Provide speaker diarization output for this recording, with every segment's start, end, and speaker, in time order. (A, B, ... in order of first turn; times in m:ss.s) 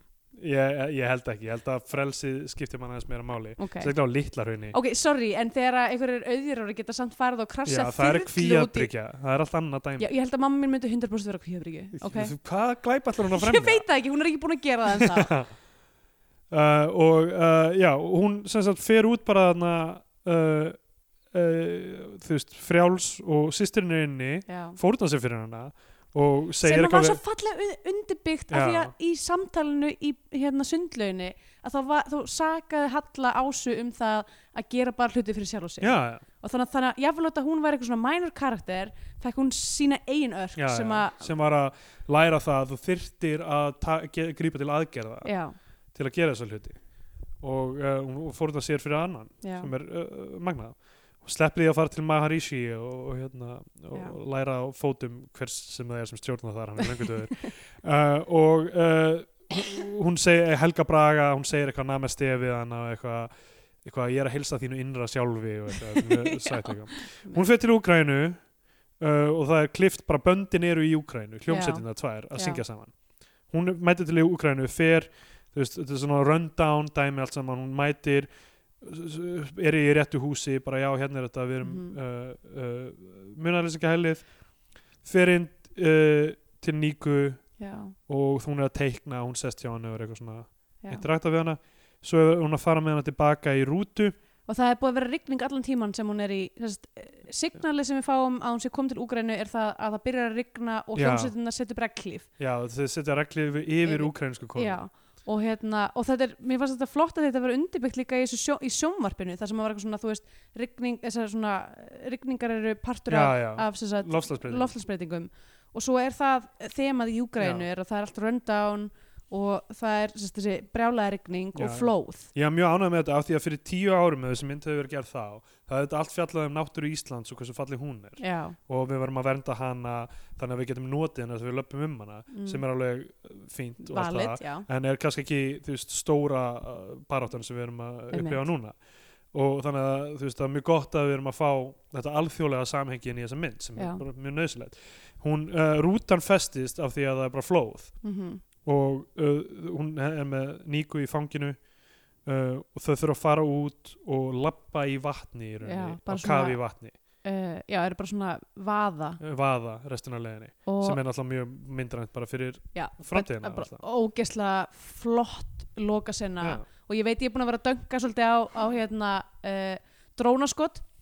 0:00.3-0:04.8 A
0:03.6-0:03.9 B
0:04.7-0:08.9 B
0:07.6-0:10.0 A
0:10.0-0:12.3 B
0:12.0-0:13.8 A
0:13.3-0:15.3 B
0:15.0-0:15.5 A
0:16.5-0:20.8 A
0:21.3-0:27.2 A
0:24.5-0:24.8 B
0:26.6-0:41.3 B
0:28.5-0:28.9 A
0:35.8-0:36.2 A
0:40.6-0:45.3 A
0:45.2-0:45.5 B
0:45.9-0:46.8 A
0:47.4-1:08.5 A
0:49.4-0:49.7 B
1:05.9-1:07.5 B
1:09.0-1:12.9 A
1:11.5-1:12.6 B
1:13.5-1:18.3 A
1:18.8-1:24.3 A
1:21.6-1:22.0 B
1:25.0-1:27.5 A
1:27.6-1:28.0 B
1:28.1-1:34.2 A
1:34.4-1:42.3 B
1:40.9-1:41.3 A
1:42.4-1:44.8 A
1:43.8-2:02.3 B
1:53.1-1:54.7 A
1:57.4-1:57.6 A
2:01.5-2:18.8 A
2:08.2-2:08.6 B
2:12.3-2:12.6 B
2:13.8-2:14.7 B
2:18.1-2:18.4 B
2:19.3-2:28.0 A
2:23.8-2:24.0 B
2:28.0-2:28.4 B
2:28.6-2:31.6 A
2:32.2-2:37.0 A
2:35.6-2:39.2 B
2:39.2-2:43.8 A
2:40.6-2:41.0 B
2:42.7-2:50.8 B